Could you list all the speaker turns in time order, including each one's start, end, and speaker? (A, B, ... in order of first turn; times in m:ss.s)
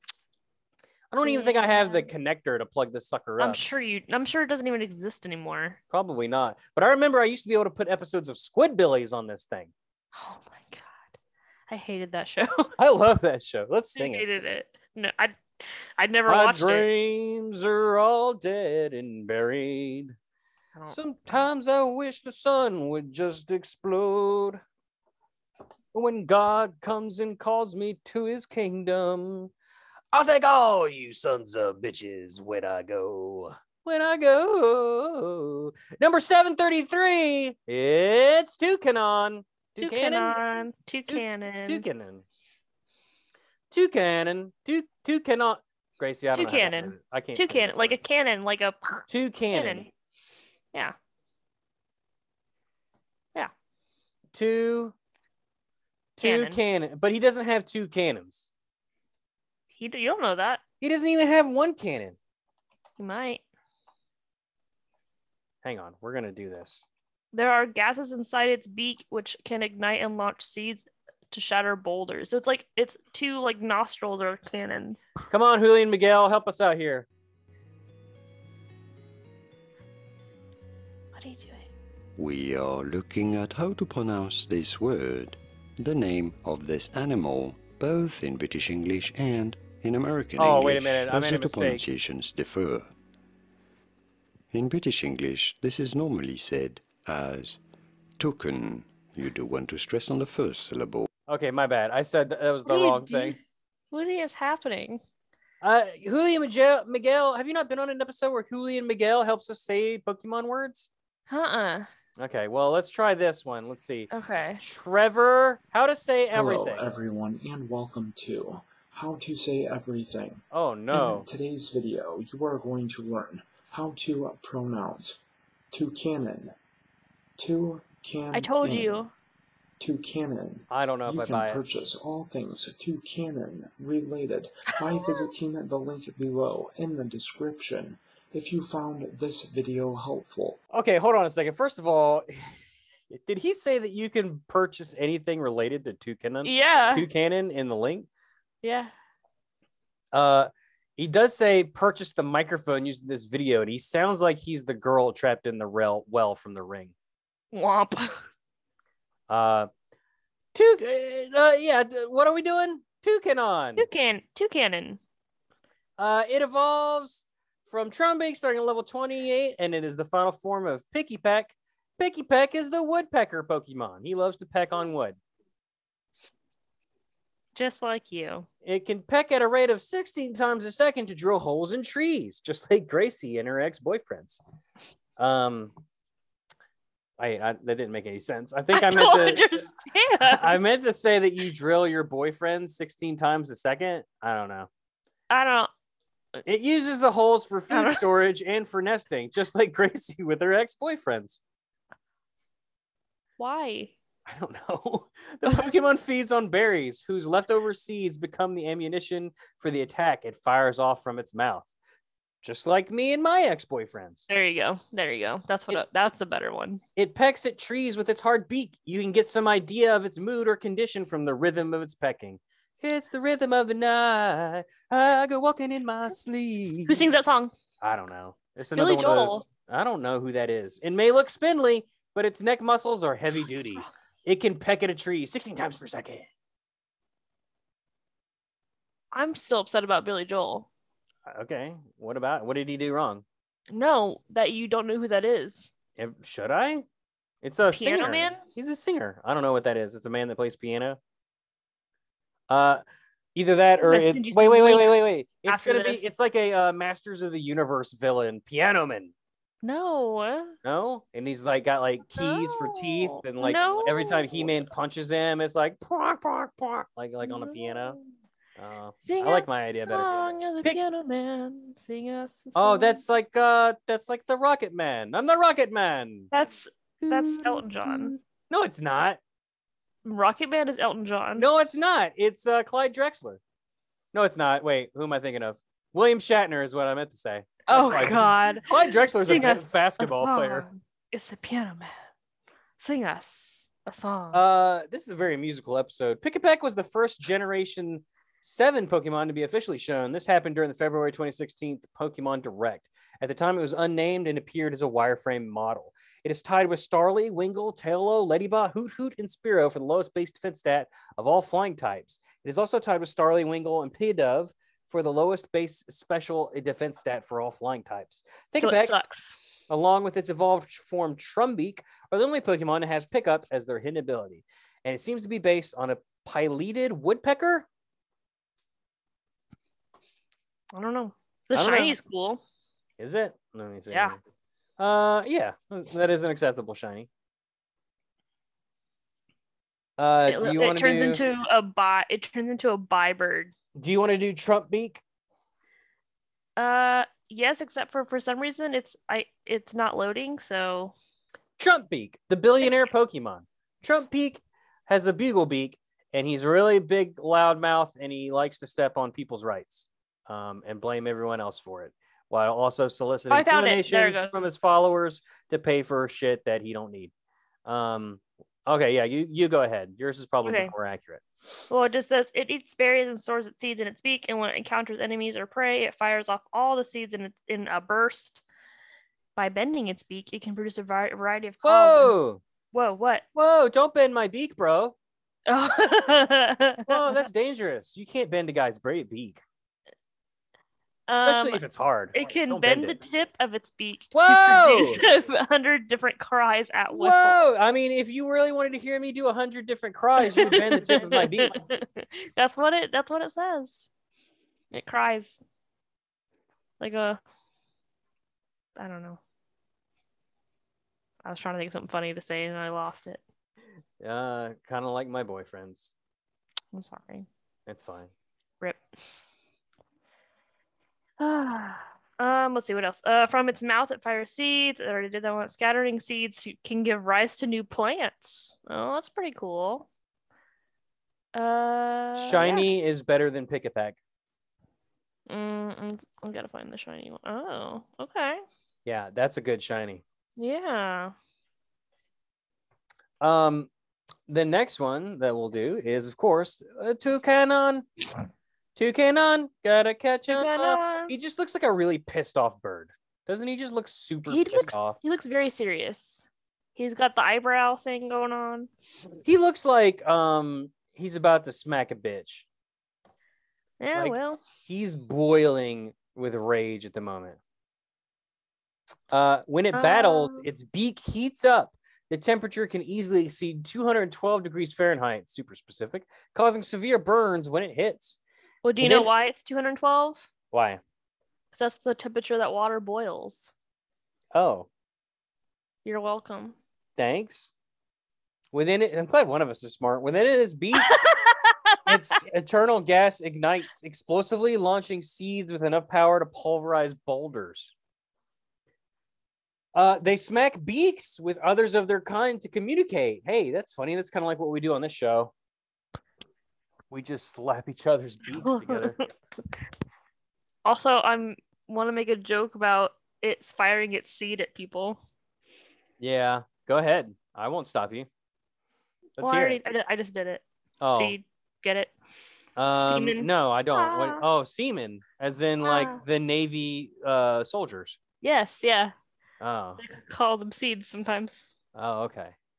0:01.1-0:03.6 A
0:01.2-0:02.1 B
0:03.4-0:05.8 B
0:05.9-0:09.7 A
0:10.1-0:11.1 B
0:11.7-0:12.7 B
0:12.8-0:14.2 A
0:14.0-0:16.9 B
0:16.3-0:20.2 A
0:20.8-0:21.4 B
0:20.9-0:24.6 A
0:25.9-0:29.5 A
0:30.1-0:40.4 A
0:39.8-0:41.8 B
0:41.1-0:42.2 A
0:43.7-0:48.0 A
0:46.3-0:49.9 B
0:49.1-0:49.9 A
0:54.3-0:54.9 A
0:56.2-0:58.5 A
0:56.2-0:56.6 B
0:59.7-1:00.6 B
1:00.8-1:02.2 A
1:03.0-1:03.4 B
1:05.6-1:06.8 A
1:07.3-1:15.0 B
1:15.3-1:17.1 A
1:21.1-1:21.7 B
1:22.2-1:32.9 C
1:30.4-1:31.8 A
1:34.5-1:37.6 C
1:38.2-1:41.1 C
1:41.3-1:43.4 A
1:42.6-1:43.4 B
1:43.9-1:45.0 B
1:45.6-1:50.9 A
1:51.3-1:51.9 B
1:52.2-1:56.9 A
1:54.1-1:54.6 B
1:56.3-2:05.2 D
2:00.5-2:01.3 A
2:05.7-2:06.5 D
2:07.4-2:09.1 D
2:08.3-2:09.1 B
2:09.8-2:20.6 D
2:10.7-2:11.6 A
2:14.9-2:15.2 B
2:20.7-2:22.3 A
2:23.1-2:28.1 A
2:26.4-2:27.1 B
2:28.6-2:28.9 B
2:30.1-2:36.9 A
2:37.5-2:38.2 B
2:39.3-2:39.7 A
2:40.5-2:43.9 A
2:43.8-2:45.0 B
2:46.0-2:55.2 A
2:57.5-2:58.5 B
2:58.6-3:04.4 A
3:05.2-3:05.7 A
3:07.2-3:09.7 A
3:08.7-3:10.6 B
3:10.2-3:14.7 A
3:15.3-3:15.7 B
3:16.4-3:21.4 A
3:17.7-3:18.0 B
3:23.4-3:23.9 B
3:24.2-3:31.7 A
3:32.4-3:34.3 A
3:34.3-3:36.8 B
3:37.0-3:47.0 A
3:46.9-3:47.5 B
3:47.8-3:56.3 A
3:48.8-3:49.4 B
3:59.1-4:00.7 B
4:01.2-4:03.2 A
4:03.7-4:05.7 B
4:06.0-4:06.8 A
4:07.4-4:11.0 A
4:07.7-4:08.4 B
4:12.5-4:12.8 A
4:13.3-4:19.1 A
4:13.8-4:16.0 B
4:19.6-4:20.6 B
4:20.6-4:28.0 A
4:22.2-4:24.5 B
4:27.2-4:28.1 B
4:28.6-4:30.8 A
4:29.0-4:33.0 B
4:32.5-4:36.3 A
4:36.3-4:38.1 B
4:37.0-4:39.2 A
4:40.0-4:41.5 B
4:41.4-4:43.4 A
4:44.1-4:50.7 A
4:47.7-4:51.9 B
4:52.8-4:54.4 B
4:54.3-5:18.9 A
5:18.6-5:19.4 B
5:19.7-5:27.7 A
5:30.7-5:32.4 B
5:31.5-5:32.0 A
5:33.0-5:34.2 A
5:33.9-5:34.2 B
5:34.8-5:37.1 A
5:40.0-5:41.2 A
5:40.3-5:43.5 B
5:43.7-5:45.0 A
5:46.6-5:50.9 B
5:51.6-6:07.1 A
6:03.3-6:04.5 B
6:07.6-6:11.2 A
6:10.4-6:10.7 B
6:11.7-6:18.4 B
6:19.4-6:22.2 B
6:21.6-6:22.4 A
6:22.7-6:23.2 B
6:23.3-6:24.9 A
6:25.5-6:27.2 B
6:26.9-6:29.4 A
6:31.1-6:37.4 B
6:31.2-6:33.0 A
6:34.1-6:35.0 A
6:36.9-6:41.6 A
6:40.2-6:43.9 B
6:44.7-6:45.4 B
6:46.8-6:47.2 B
6:48.8-6:49.2 B
6:51.2-6:53.2 B
6:54.0-6:55.9 A
6:56.7-6:57.3 B
6:57.6-6:58.1 A
7:01.2-7:09.9 B
7:11.3-7:12.7 B
7:12.2-7:14.0 A
7:15.3-7:18.4 B
7:18.8-7:20.0 A
7:20.4-7:21.1 B
7:23.2-7:23.7 A
7:24.3-7:27.8 A
7:28.8-7:35.0 A
7:30.3-7:31.1 B
7:34.3-7:38.7 B
7:39.2-7:42.4 A
7:43.8-7:44.4 B
7:43.9-7:47.4 A
7:49.1-7:58.2 A
7:49.7-7:50.5 B
7:58.6-8:00.3 B
7:58.8-7:59.1 A
8:00.5-8:00.8 A
8:01.5-8:03.5 B
8:04.3-8:04.7 A
8:05.8-8:06.6 B
8:07.0-8:07.5 A
8:08.5-8:11.0 A
8:10.8-8:11.9 B
8:11.8-8:17.7 A
8:19.7-8:25.3 A
8:26.9-8:29.0 A
8:28.3-8:29.0 B
8:30.6-8:35.0 B
8:36.0-8:38.1 A
8:39.2-8:39.6 A
8:39.2-8:41.9 B
8:40.8-8:41.2 A
8:42.6-8:48.0 A
8:42.7-8:44.2 B
8:45.6-8:46.0 B
8:48.2-8:48.9 B
8:49.4-8:49.8 A
8:49.8-8:51.5 B
8:51.7-8:52.4 A